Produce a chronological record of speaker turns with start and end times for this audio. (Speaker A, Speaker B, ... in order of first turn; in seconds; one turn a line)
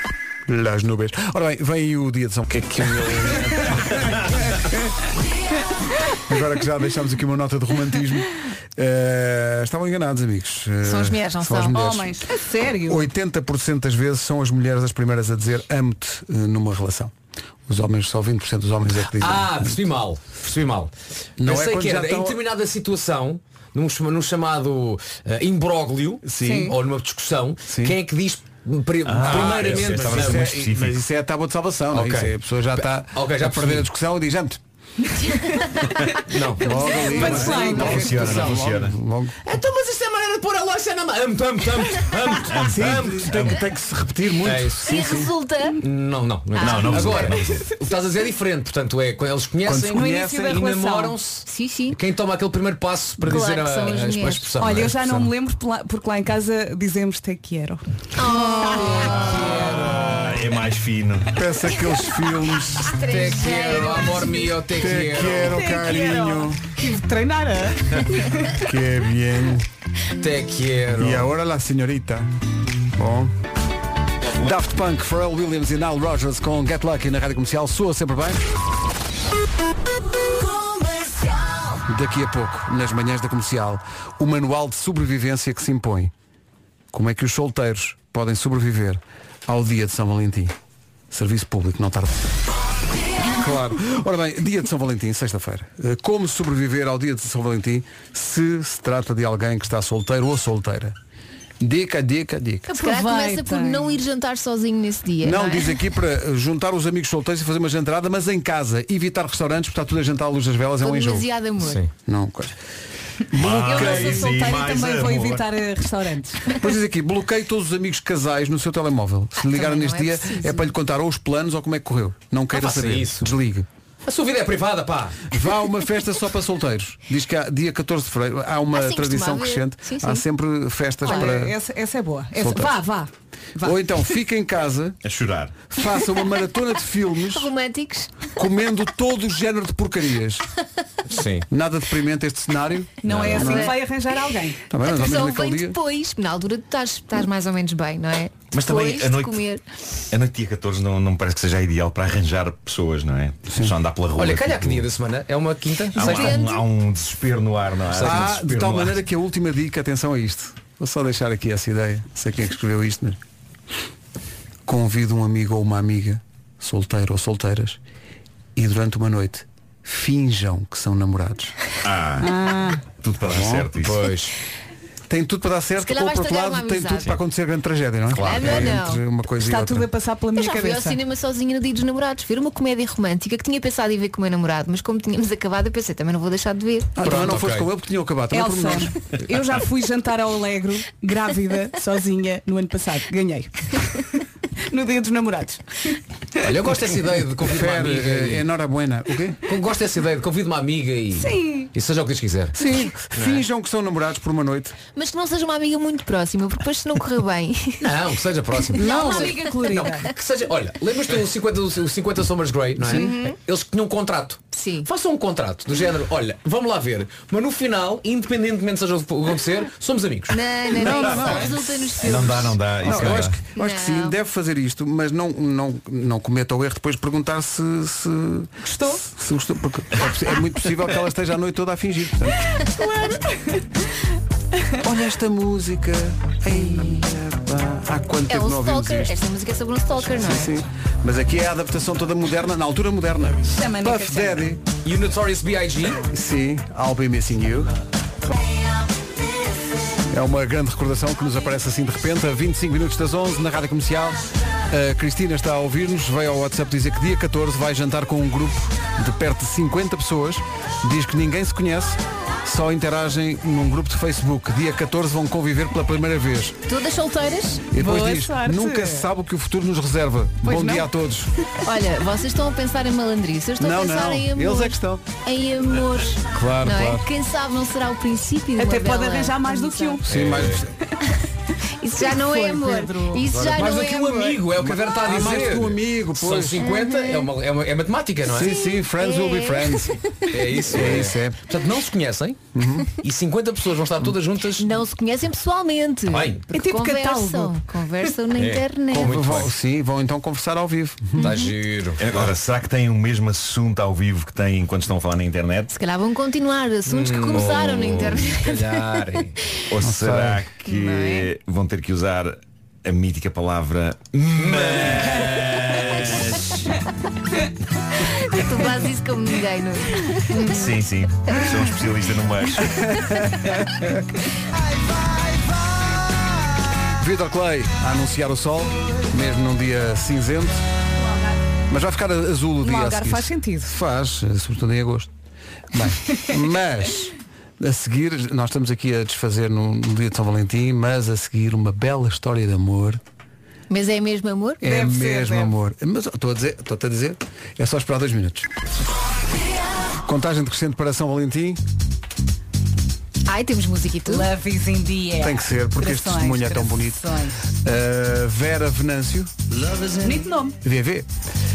Speaker A: 0.5-4.8
Speaker A: 6.2-12.2
Speaker B: 10.8-11.8
Speaker C: 11.7-13.1
Speaker A: 12.8-17.1
Speaker A: 17.7-19.8
Speaker D: 19.2-20.9
Speaker A: 21.4-22.4
Speaker D: 21.4-30.5
Speaker A: 26.2-26.8
Speaker C: 26.4-26.7
Speaker A: 27.7-28.0
Speaker E: 29.1-31.0
Speaker A: 29.1-34.6
Speaker D: 31.9-33.9
Speaker C: 35.2-35.8
Speaker D: 36.1-38.8
Speaker A: 36.6-39.4
Speaker C: 36.8-38.2
Speaker E: 37.8-39.0
Speaker D: 39.4-43.5
Speaker E: 42.5-43.6
Speaker A: 42.6-45.3
Speaker D: 44.4-45.0
Speaker B: 44.8-45.8
Speaker D: 45.8-54.9
Speaker E: 46.5-47.7
Speaker B: 46.6-47.3
Speaker A: 49.6-50.6
Speaker C: 49.9-51.1
Speaker B: 51.5-52.0
Speaker B: 53.2-54.5
Speaker C: 54.6-57.8
Speaker A: 54.8-55.3
Speaker B: 58.2-59.7
Speaker C: 58.4-60.1
Speaker D: 59.3-60.3
Speaker E: 59.6-61.4
Speaker A: 61.3-63.2
Speaker D: 62.9-65.6
Speaker B: 63.1-64.4
Speaker A: 64.7-66.7
Speaker C: 65.4-68.6
Speaker A: 68.5-69.7
Speaker D: 70.1-71.3
Speaker A: 71.0-72.3
Speaker A: 72.9-73.4
Speaker A: 74.3-78.5
Speaker A: 81.8-86.1
Speaker A: 86.9-90.5
Speaker A: 91.1-92.3
Speaker A: 93.3-101.0
Speaker A: 101.6-102.7
Speaker C: 102.7-104.0
Speaker B: 102.7-105.8
Speaker A: 105.2-111.3
Speaker B: 110.8-111.8
Speaker D: 111.6-111.9
Speaker A: 112.1-112.6
Speaker A: 113.3-114.5
Speaker E: 113.3-115.5
Speaker C: 113.5-116.6
Speaker A: 116.6-123.7
Speaker B: 119.4-120.7
Speaker D: 122.5-123.3
Speaker D: 124.1-125.2
Speaker A: 125.3-131.6
Speaker B: 128.7-130.2
Speaker C: 131.0-133.8
Speaker A: 132.4-132.8
Speaker A: 133.6-135.0
Speaker E: 135.0-135.7
Speaker A: 135.7-137.5
Speaker B: 137.3-138.3
Speaker A: 138.3-140.5
Speaker D: 141.1-141.5
Speaker A: 141.5-143.8
Speaker C: 143.0-144.6
Speaker D: 143.1-143.3
Speaker B: 143.3-143.8
Speaker A: 144.7-145.8
Speaker B: 144.8-149.6
Speaker E: 148.5-149.4
Speaker E: 150.1-154.9
Speaker A: 153.5-153.7
Speaker D: 154.2-156.4
Speaker B: 155.9-156.7
Speaker E: 155.9-159.0
Speaker D: 157.9-158.5
Speaker A: 158.0-163.2
Speaker A: 164.7-167.8
Speaker A: 168.6-171.6
Speaker E: 171.8-174.0
Speaker C: 172.2-172.8
Speaker A: 173.2-173.8
Speaker D: 173.8-174.3
Speaker A: 175.1-179.9
Speaker B: 175.8-177.2
Speaker D: 178.1-178.8
Speaker B: 178.2-179.0
Speaker C: 179.4-181.0
Speaker B: 180.3-187.0
Speaker A: 187.0-188.9
Speaker D: 187.0-187.7
Speaker C: 188.3-194.2
Speaker C: 194.7-196.0
Speaker D: 196.4-198.5
Speaker A: 197.4-199.5
Speaker D: 199.4-202.6
Speaker C: 201.2-201.7
Speaker A: 202.5-204.8
Speaker D: 203.1-203.4
Speaker B: 204.9-207.9
Speaker D: 207.8-220.4
Speaker B: 208.7-210.1
Speaker C: 208.8-210.0
Speaker A: 212.8-213.1
Speaker B: 212.9-213.4
Speaker B: 214.5-214.9
Speaker B: 220.3-224.2
Speaker A: 220.7-221.6
Speaker E: 222.0-223.4
Speaker A: 222.8-232.5
Speaker C: 228.6-229.0
Speaker C: 232.7-233.7
Speaker A: 234.8-239.2
Speaker B: 238.3-240.5
Speaker A: 239.9-244.6
Speaker C: 243.4-244.4
Speaker D: 244.8-246.1
Speaker A: 246.0-247.7
Speaker A: 250.1-266.6
Speaker B: 266.7-267.7
Speaker A: 267.7-271.3
Speaker C: 267.8-269.1
Speaker C: 270.4-270.9
Speaker B: 271.6-280.1
Speaker A: 273.6-275.1
Speaker A: 276.3-277.1
Speaker C: 278.6-280.0
Speaker A: 280.0-280.8
Speaker D: 280.1-280.6
Speaker B: 281.8-284.4
Speaker C: 282.0-283.3
Speaker D: 283.3-288.5
Speaker A: 284.6-286.7
Speaker B: 286.6-287.3
Speaker A: 288.2-290.0
Speaker B: 288.3-290.3
Speaker D: 290.3-292.4
Speaker A: 290.7-291.4
Speaker A: 292.5-292.9
Speaker D: 293.0-294.8
Speaker B: 294.6-299.2
Speaker D: 296.1-296.4
Speaker C: 296.5-297.6
Speaker D: 298.4-299.5
Speaker A: 298.9-301.3
Speaker D: 301.2-302.3
Speaker B: 301.2-301.5
Speaker E: 302.0-305.7
Speaker B: 305.7-309.0
Speaker D: 306.9-309.4
Speaker E: 309.7-316.6
Speaker A: 309.8-310.5
Speaker B: 310.6-311.3
Speaker D: 314.4-315.4
Speaker B: 318.0-321.5
Speaker E: 320.5-322.9
Speaker A: 322.7-323.9
Speaker A: 327.0-330.6
Speaker A: 331.7-335.1
Speaker C: 332.6-333.8
Speaker A: 335.7-343.0
Speaker B: 343.7-344.6
Speaker A: 344.6-348.5
Speaker C: 344.6-345.5
Speaker A: 350.0-351.6
Speaker B: 353.3-354.3
Speaker C: 354.1-357.4
Speaker A: 355.2-357.1
Speaker A: 357.6-359.3
Speaker C: 360.0-360.6
Speaker A: 360.6-361.1